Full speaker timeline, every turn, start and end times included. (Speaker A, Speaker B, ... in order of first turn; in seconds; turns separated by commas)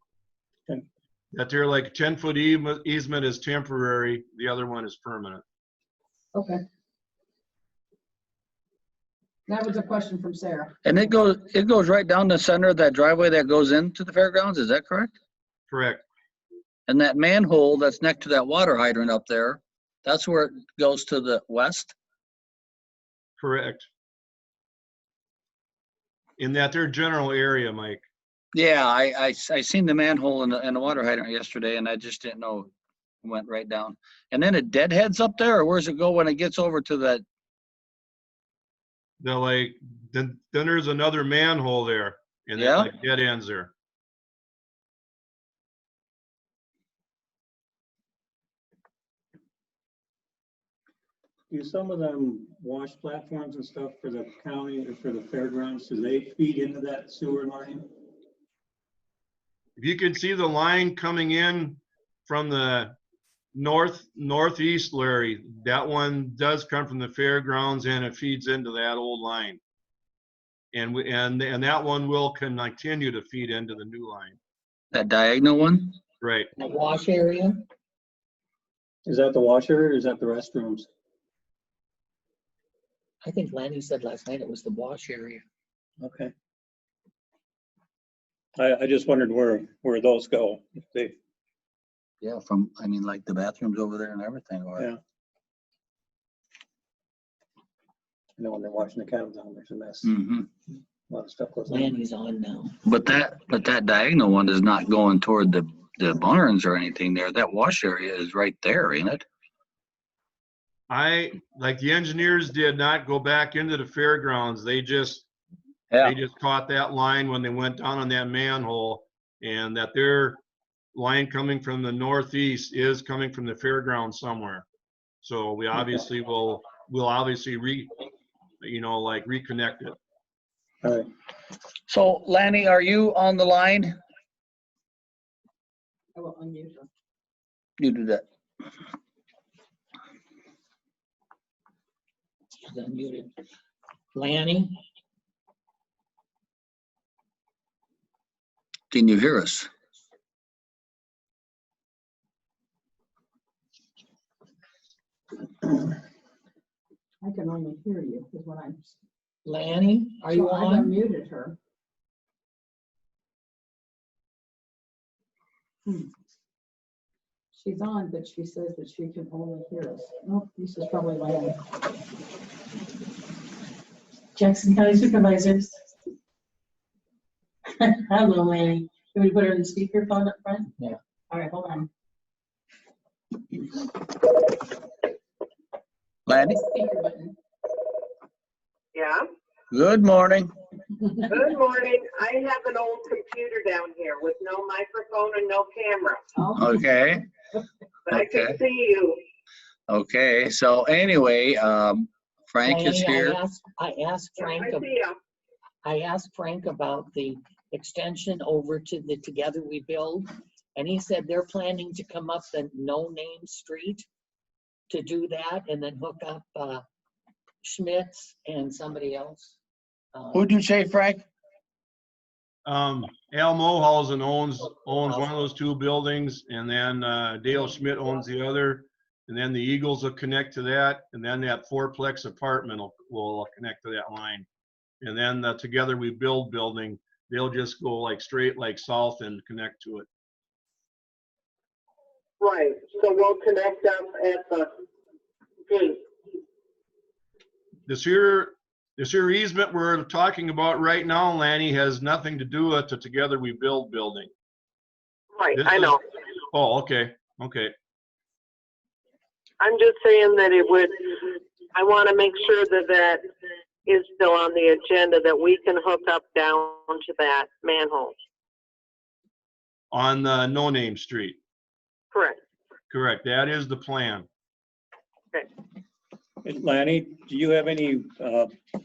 Speaker A: 1.3-5.4, Speaker B: 6.3-6.6, Speaker B: 9.5-10.8, Speaker C: 10.8-15.1, Speaker A: 15.7-16.0, Speaker C: 16.9-21.9, Speaker A: 23.4-23.9, Speaker A: 26.4-28.0, Speaker C: 28.5-32.7, Speaker C: 33.2-37.2, Speaker A: 39.2-43.7, Speaker C: 42.6-42.9, Speaker D: 51.5-57.9, Speaker A: 59.8-62.9, Speaker A: 63.5-69.6, Speaker A: 70.7-74.4, Speaker C: 74.9-76.0, Speaker A: 76.2-76.5, Speaker E: 76.6-77.6, Speaker D: 79.0-80.9, Speaker E: 83.2-85.4, Speaker D: 86.0-86.3, Speaker D: 88.6-91.2, Speaker C: 92.2-94.9, Speaker D: 98.4-100.2, Speaker C: 100.0-100.5, Speaker D: 101.1-102.0, Speaker E: 101.7-102.8, Speaker C: 102.8-109.2, Speaker A: 110.9-115.2, Speaker C: 115.9-116.2, Speaker A: 116.0-120.4, Speaker A: 120.9-124.6, Speaker A: 125.2-127.9, Speaker A: 128.6-130.0, Speaker D: 130.8-131.1, Speaker C: 131.9-133.9, Speaker B: 136.1-136.9, Speaker C: 137.8-138.2, Speaker E: 142.7-143.3, Speaker E: 144.1-144.8, Speaker C: 148.9-149.7, Speaker B: 157.2-158.9, Speaker E: 159.4-160.9, Speaker B: 160.3-161.6, Speaker B: 167.5-171.6, Speaker F: 174.4-175.7, Speaker F: 178.0-180.7, Speaker F: 181.3-181.8, Speaker B: 181.4-181.7, Speaker C: 186.3-186.6, Speaker B: 186.7-187.3, Speaker G: 188.9-189.2, Speaker C: 189.7-190.5, Speaker G: 191.3-196.2, Speaker B: 196.4-196.8, Speaker C: 196.5-197.3, Speaker G: 198.1-199.2, Speaker C: 198.1-198.6, Speaker C: 199.9-203.4, Speaker E: 202.6-204.9, Speaker G: 204.4-205.1, Speaker E: 205.8-214.1, Speaker E: 214.9-216.8, Speaker E: 217.6-219.6, Speaker E: 220.1-220.5, Speaker C: 220.3-221.2, Speaker A: 222.7-234.4, Speaker E: 225.0-225.3, Speaker A: 235.0-240.1, Speaker G: 242.4-244.7, Speaker G: 245.7-246.0, Speaker A: 247.9-254.3, Speaker G: 255.3-256.0, Speaker A: 255.5-256.0, Speaker A: 256.5-257.7, Speaker G: 259.6-260.9, Speaker G: 261.7-263.2, Speaker G: 263.9-268.1, Speaker A: 269.9-271.4, Speaker G: 272.1-272.4, Speaker A: 272.9-274.3, Speaker D: 276.4-278.5